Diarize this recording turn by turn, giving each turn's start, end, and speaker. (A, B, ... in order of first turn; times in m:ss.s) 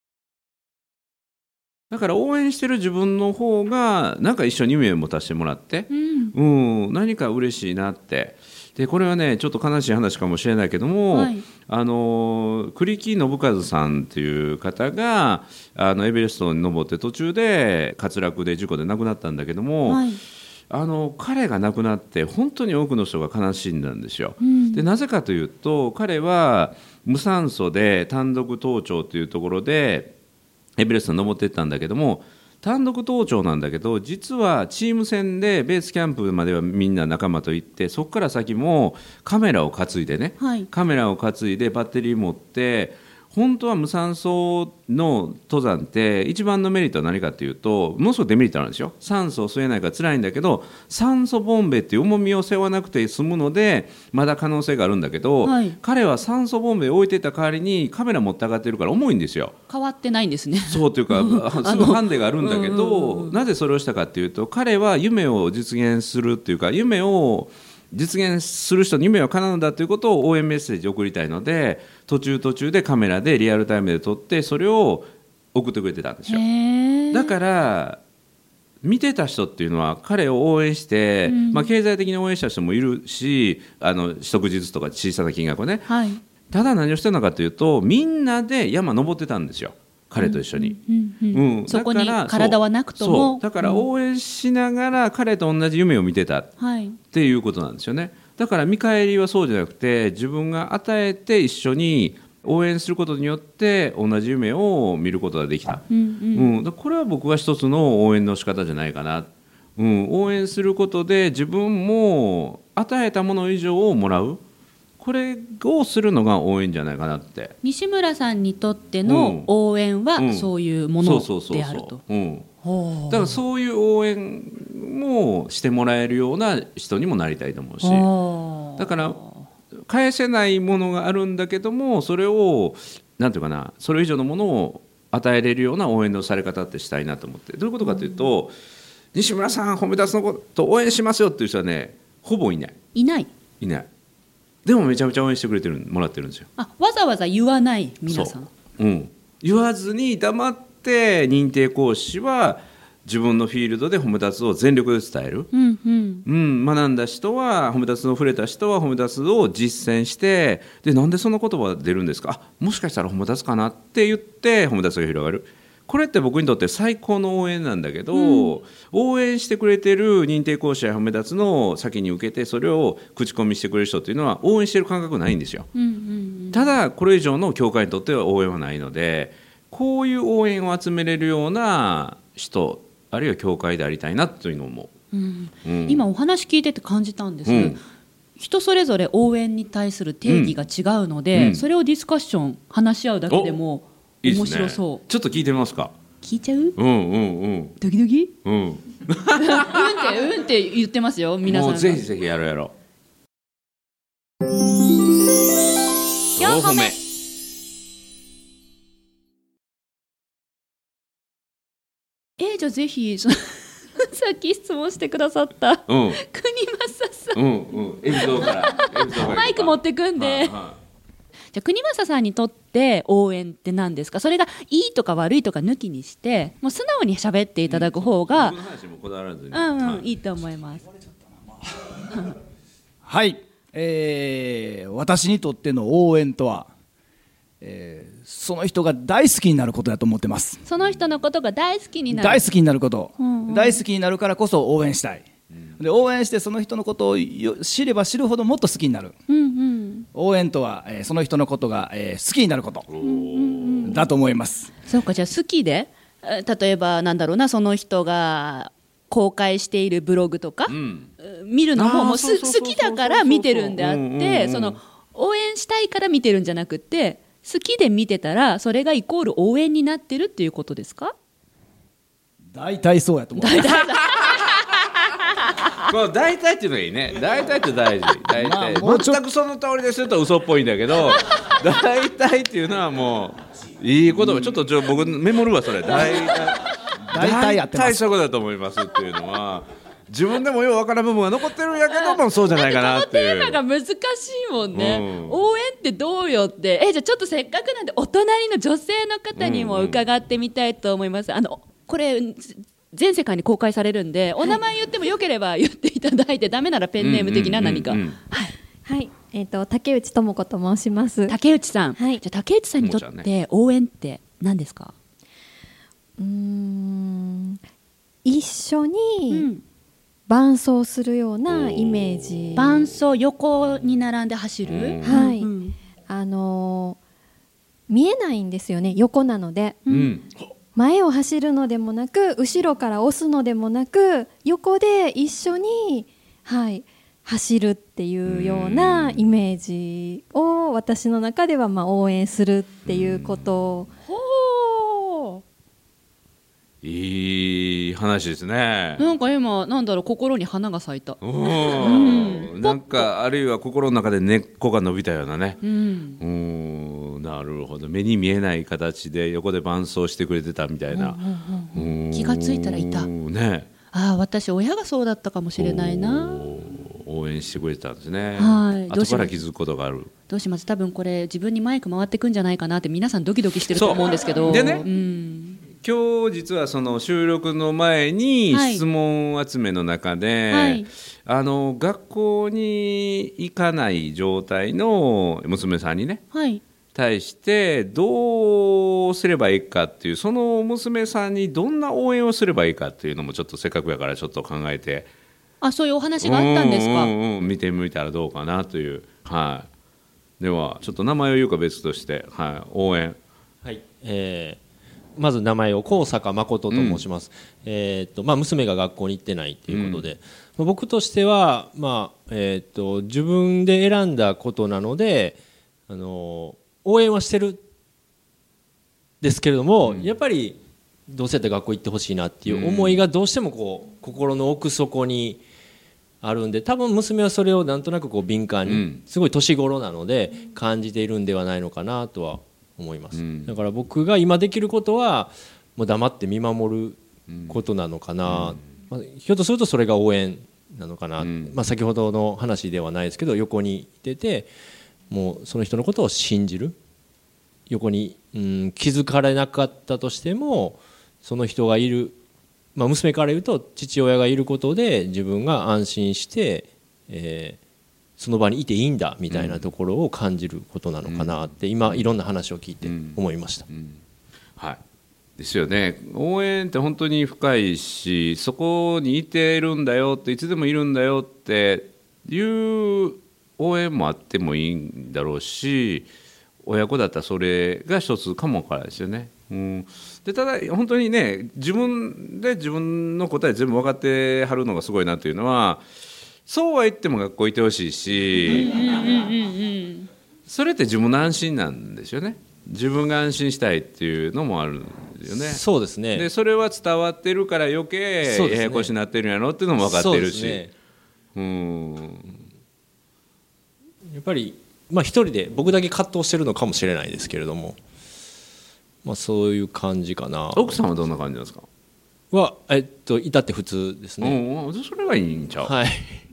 0:01.9-0:20.1 A
0:05.9-0:06.3 B
0:11.1-0:11.5 B
0:19.9-0:20.2 B
0:20.7-0:30.1 A
0:24.4-0:24.8 B
0:30.8-0:59.6 A
0:40.4-0:40.7 B
0:55.4-0:55.8 B
0:59.7-1:03.4 B
1:00.7-1:16.4 A
1:16.3-1:17.3 B
1:17.1-1:18.0 A
1:18.8-1:25.9 A
1:21.3-1:21.7 B
1:25.9-1:26.2 B
1:26.5-1:30.8 A
1:30.2-1:33.8 B
1:31.3-1:36.6 A
1:36.6-1:37.0 B
1:37.1-1:54.4 A
1:45.9-1:46.5 B
1:55.0-1:57.5 A
1:57.6-2:02.0 B
1:59.0-1:59.5 A
2:00.2-2:02.5 A
2:02.6-2:03.4 B
2:03.1-2:08.1 A
2:07.8-2:09.4 B
2:08.8-2:09.2 A
2:09.9-2:18.5 A
2:17.8-2:18.3 B
2:19.1-2:22.8 A
2:23.0-2:23.3 B
2:23.6-2:23.9 A
2:24.6-2:26.5 A
2:26.6-2:28.5 B
2:28.1-2:35.5 A
2:35.5-2:36.2 B
2:36.3-2:55.7 A
2:48.1-2:48.5 B
2:55.8-2:56.8 B
2:56.5-3:04.9 A
3:05.1-3:07.8 B
3:05.6-3:06.0 A
3:07.5-3:07.8 A
3:08.4-3:15.0 B
3:10.3-3:10.6 A
3:11.3-3:11.6 A
3:13.3-3:13.6 A
3:14.2-3:15.9 A
3:16.2-3:16.8 B
3:16.8-3:17.8 A
3:17.8-3:18.3 B
3:18.4-3:20.0 A
3:19.4-3:22.0 B
3:21.4-3:22.7 A
3:26.4-3:27.0 B
3:26.4-3:27.0 A
3:32.4-3:37.4 B
3:35.9-3:36.2 A
3:37.4-3:40.8 A
3:38.1-3:40.6 B
3:41.5-3:48.6 B
3:47.7-3:50.0 A
3:49.5-3:50.8 B
3:52.1-3:52.4 B
3:53.0-3:56.7 C
3:57.6-4:00.6 C
4:00.6-4:02.5 B
4:02.1-4:05.3 C
4:03.2-4:03.8 B
4:05.8-4:09.2 C
4:09.3-4:10.1 B
4:10.1-4:12.9 C
4:12.9-4:14.0 A
4:13.0-4:14.0 B
4:13.8-4:14.7 C
4:14.9-4:31.1 B
4:20.7-4:21.1 A
4:21.8-4:24.8 A
4:32.5-4:33.8 C
4:33.4-4:35.9 B
4:33.7-4:34.4 A
4:35.8-4:53.6 A
4:38.3-4:39.2 C
4:45.9-4:46.9 B
4:47.1-4:48.0 C
4:51.9-5:08.5 B
4:54.7-4:55.4 A
4:59.4-5:00.0 A
5:07.0-5:08.2 A
5:08.8-5:11.4 D
5:11.3-5:14.9 B
5:12.8-5:13.3 A
5:16.2-5:17.6 D
5:18.2-5:19.5 D
5:19.3-5:19.6 B
5:20.3-5:22.8 D
5:21.5-5:22.8 A
5:22.6-5:25.8 B
5:24.7-5:25.3 A
5:25.0-5:25.5 D
5:26.1-5:27.0 D
5:27.9-5:29.9 D
5:29.9-5:30.1 B
5:29.9-5:30.3 A
5:30.8-5:43.9 D
5:38.2-5:39.3 A
5:42.9-5:43.5 A
5:44.1-5:45.3 B
5:46.8-5:49.0 A
5:49.0-5:53.1 B
5:51.2-5:55.6 A
5:55.6-5:56.2 B
5:56.2-6:01.2 A
6:00.9-6:03.1 B
6:01.7-6:03.7 A
6:03.9-6:06.5 B
6:05.6-6:10.1 A
6:08.4-6:09.4 B
6:10.3-6:15.6 B
6:13.7-6:14.9 A
6:15.8-6:26.2 A
6:18.5-6:18.8 B
6:20.5-6:20.9 B
6:26.3-6:26.6 B
6:26.9-6:35.1 A
6:35.6-6:37.1 B
6:36.2-6:39.7 A
6:40.4-6:43.2 A
6:43.6-6:44.6 E
6:45.2-6:57.6 E
6:46.7-6:47.0 A
6:49.7-6:50.1 A
6:59.2-7:05.4 E
6:59.8-7:00.1 A
7:02.5-7:03.0 A
7:06.2-7:24.5 E
7:08.7-7:09.0 A
7:13.2-7:13.5 A
7:17.3-7:17.6 A
7:18.2-7:18.6 A
7:21.2-7:21.6 A
7:25.1-7:26.8 E
7:27.7-7:32.2 E
7:32.8-7:37.6 E
7:38.2-7:43.7 E
7:39.3-7:39.7 A
7:41.1-7:42.0 A
7:42.8-7:44.0 A
7:45.4-7:56.1 A
7:56.6-8:05.8 A
8:06.5-8:08.8 A
8:08.4-8:10.1 B
8:10.5-8:20.6 A
8:15.3-8:16.3 E
8:18.2-8:18.9 E
8:19.8-8:20.7 E
8:21.4-8:22.4 A
8:24.1-8:27.8 E
8:29.0-8:30.8 E
8:30.6-8:31.7 A
8:32.3-8:34.4 E
8:34.2-8:35.7 A
8:35.6-8:36.2 E